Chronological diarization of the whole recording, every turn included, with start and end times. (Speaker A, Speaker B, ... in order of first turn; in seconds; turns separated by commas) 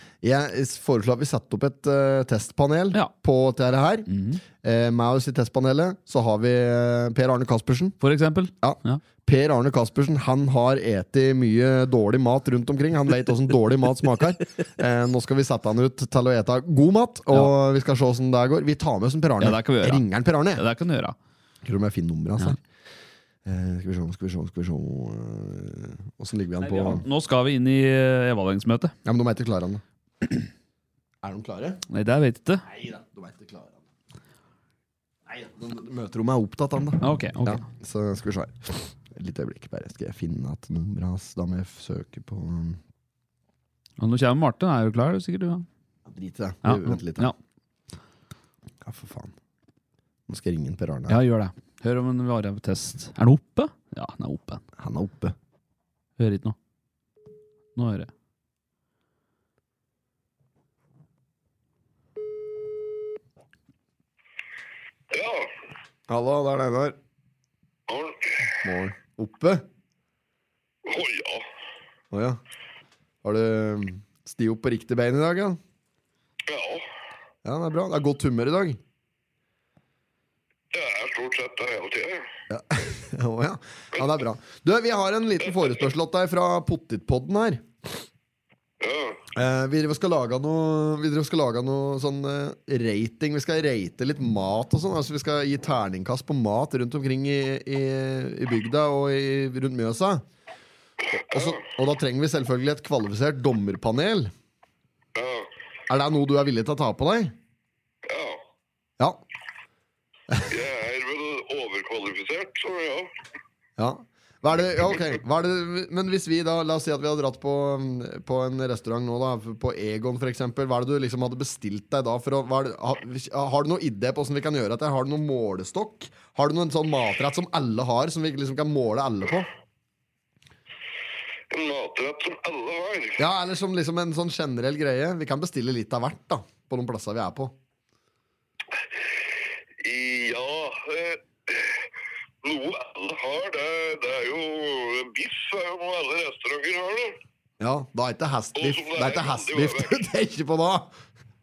Speaker A: 0.2-4.1, Speaker B: 4.1-4.4, Speaker A: 4.6-8.0, Speaker B: 8.0-9.0, Speaker A: 8.6-20.6, Speaker B: 19.4-20.0, Speaker B: 20.6-21.2, Speaker A: 21.6-22.6, Speaker A: 23.5-27.1, Speaker B: 26.6-28.9, Speaker A: 29.1-29.8, Speaker A: 31.2-31.8, Speaker B: 31.9-32.6, Speaker A: 32.7-33.8, Speaker A: 35.3-42.8, Speaker B: 37.0-37.6, Speaker B: 44.0-45.7, Speaker A: 46.1-47.3, Speaker B: 46.6-47.4, Speaker A: 48.8-49.3, Speaker A: 50.3-51.2, Speaker B: 51.1-54.6, Speaker A: 54.8-55.4, Speaker B: 56.2-56.6, Speaker B: 57.8-58.1, Speaker C: 65.1-65.5, Speaker A: 66.1-67.0, Speaker C: 67.9-68.4, Speaker A: 68.6-69.6, Speaker C: 70.8-71.5, Speaker A: 72.1-72.4, Speaker A: 73.2-75.6, Speaker C: 76.5-76.9, Speaker A: 77.5-78.8, Speaker C: 80.7-82.3, Speaker A: 82.5-87.7, Speaker C: 88.8-89.2, Speaker A: 89.3-100.2, Speaker A: 101.3-104.3, Speaker C: 105.2-105.5, Speaker A: 105.9-107.3, Speaker C: 108.1-108.4, Speaker C: 110.5-113.1, Speaker A: 113.8-129.5, Speaker C: 131.5-133.2, Speaker A: 133.2-137.5, Speaker C: 139.8-141.8, Speaker C: 142.4-147.2, Speaker A: 147.6-150.9, Speaker C: 148.6-150.0